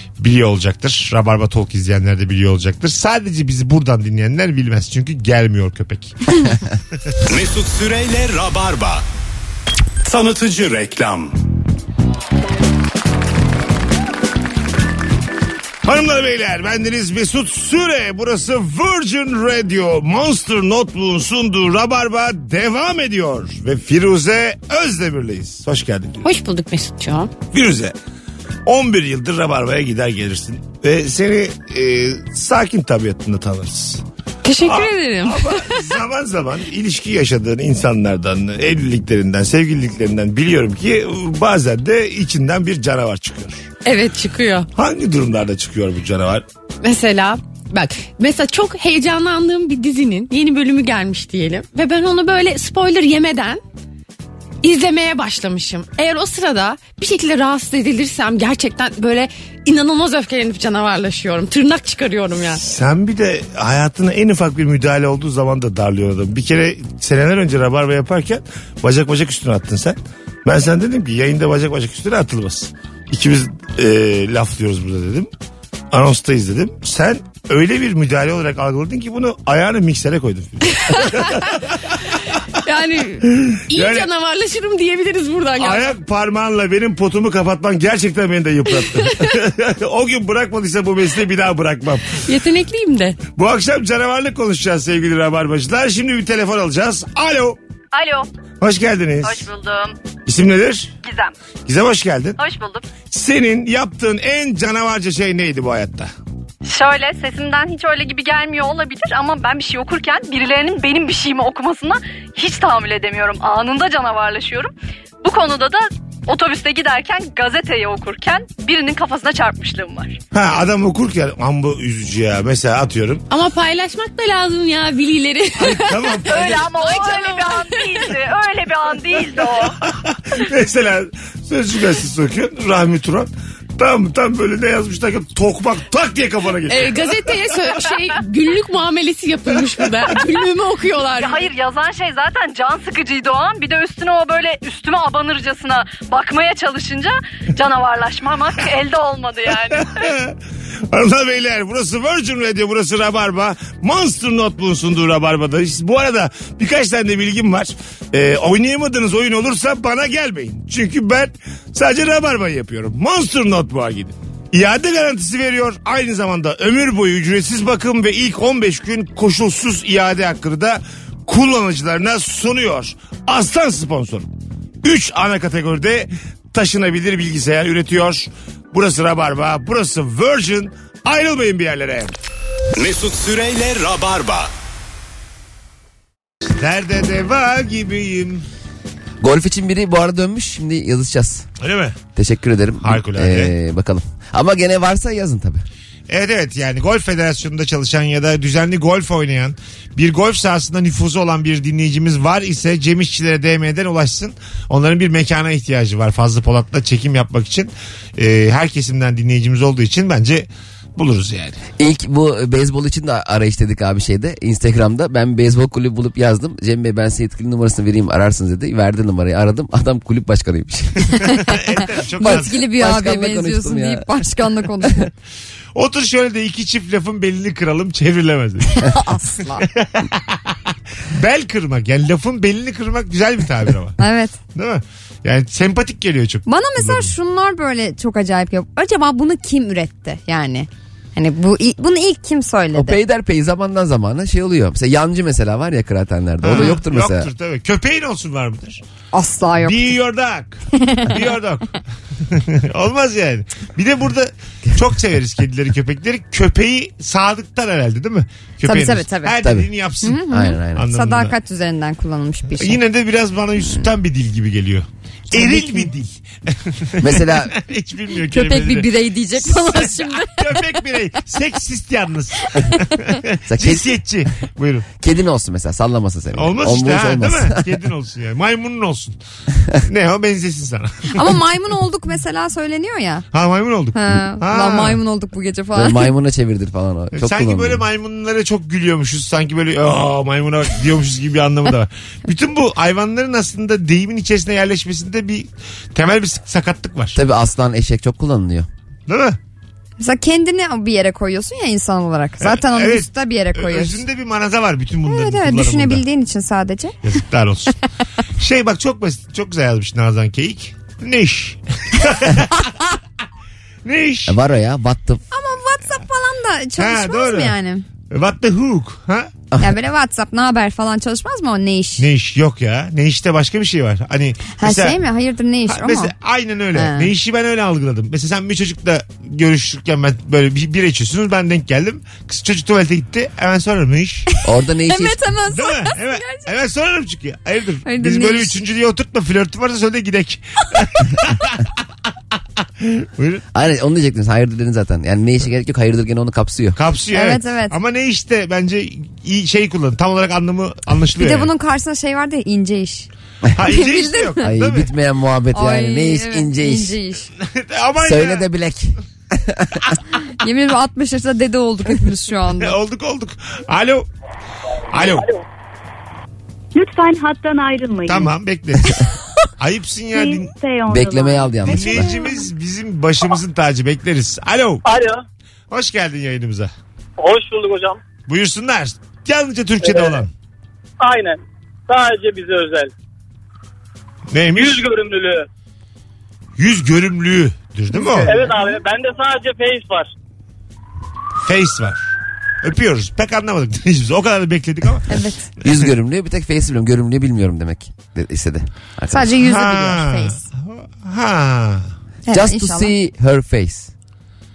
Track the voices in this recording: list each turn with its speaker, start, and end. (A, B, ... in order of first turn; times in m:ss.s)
0:00.2-0:06.5 A
0:07.3-0:09.0 B
0:10.0-0:11.3 B
0:15.8-0:26.2 A
0:26.2-0:27.3 C
0:27.5-0:28.0 A
0:28.6-0:34.0 A
0:34.4-0:35.9 C
0:34.6-0:43.7 A
0:43.8-0:44.7 C
0:44.8-0:46.4 A
0:46.8-0:53.6 C
0:54.6-1:02.6 C
1:02.5-1:15.3 A
1:15.9-1:22.4 A
1:22.6-1:26.0 C
1:23.2-1:24.1 A
1:25.6-1:32.2 A
1:32.1-1:33.2 C
1:33.3-1:37.6 A
1:37.9-1:38.3 D
1:38.6-1:39.5 A
1:39.2-1:40.0 D
1:40.2-1:40.9 A
1:41.0-1:41.3 D
1:41.6-1:42.4 A
1:42.4-1:42.9 D
1:43.1-1:46.1 A
1:46.6-1:54.7 D
1:55.2-2:00.2 D
2:00.3-2:03.2 A
2:03.3-2:08.2 C
2:05.6-2:06.7 A
2:06.2-2:09.8 D
2:09.8-2:17.6 A
2:16.7-2:21.5 C
2:21.1-2:30.0 D
2:29.7-2:30.4 A
2:30.9-2:54.3 A
2:54.8-3:02.1 A
3:02.8-3:04.5 B
3:06.4-3:08.4 A
3:09.2-3:11.5 E
3:11.6-3:12.0 A
3:12.2-3:15.6 E
3:12.8-3:13.5 A
3:16.1-3:31.6 A
3:31.8-3:41.2 E
3:41.4-3:42.7 A
3:42.2-3:45.1 F
3:42.2-3:44.1 E
3:44.8-3:45.1 E
3:45.8-3:49.0 A
3:48.8-3:49.7 F
3:49.8-3:50.6 A
3:51.1-3:54.0 A
3:54.0-3:54.4 F
3:54.5-3:57.1 A
3:56.5-4:03.0 F
4:02.7-4:07.3 E
4:06.4-4:08.8 A
4:09.1-4:10.0 F
4:09.6-4:20.2 A
4:10.8-4:11.1 F
4:18.6-4:19.4 F
4:19.4-4:19.7 E
4:20.0-4:22.8 F
4:20.3-4:20.9 E
4:20.8-4:21.4 A
4:22.6-4:34.9 A
4:25.3-4:25.9 F
4:27.0-4:27.6 E
4:28.3-4:30.6 F
4:33.5-4:33.9 E
4:35.0-4:37.8 E
4:36.4-4:39.2 A
4:39.9-4:41.4 A
4:41.1-4:43.2 F
4:43.3-4:45.0 A
4:43.9-4:46.1 F
4:45.8-4:47.8 E
4:47.2-4:57.2 A
4:57.2-4:58.7 E
4:59.1-4:59.4 A
5:00.0-5:04.0 F
5:02.4-5:06.0 A
5:05.0-5:07.0 F
5:07.0-5:07.8 A
5:08.4-5:12.6 A
5:13.8-5:14.4 A
5:14.3-5:15.2 E
5:15.3-5:17.8 F
5:16.8-5:17.6 A
5:18.1-5:19.3 A
5:19.6-5:22.1 F
5:22.0-5:25.0 A
5:24.6-5:26.1 F
5:25.7-5:34.2 A
5:26.8-5:27.1 F
5:34.4-5:35.2 E
5:34.9-5:36.5 F
5:35.5-5:41.7 A
5:37.8-5:38.6 F
5:42.8-5:43.4 A
5:43.5-5:46.8 E
5:46.8-5:51.5 A
5:47.1-5:47.8 F
5:51.2-5:53.1 F
5:53.6-5:54.9 A
5:53.7-5:54.5 F
5:54.4-5:57.0 E
5:55.5-5:57.3 F
5:57.4-5:58.4 A
5:58.0-5:59.8 E
6:00.4-6:02.8 F
6:02.5-6:04.1 A
6:04.9-6:05.3 A
6:05.0-6:05.3 G
6:06.8-6:08.4 H
6:08.0-6:09.0 A
6:09.6-6:10.5 A
6:10.1-6:12.5 H
6:10.9-6:12.2 E
6:11.7-6:14.8 A
6:14.8-6:15.2 G
6:15.7-6:16.7 A
6:17.2-6:18.0 G
6:18.3-6:20.3 A
6:19.8-6:20.2 G
6:21.0-6:22.9 G
6:24.3-6:24.8 A
6:24.5-6:25.5 G
6:26.6-6:28.5 A
6:27.9-6:28.5 F
6:28.2-6:30.1 G
6:31.4-6:32.1 A
6:32.6-6:35.2 A
6:35.1-6:35.5 F
6:35.6-6:39.4 E
6:39.1-6:40.4 F
6:39.4-6:41.9 A
6:42.3-6:42.9 F
6:42.3-6:43.9 E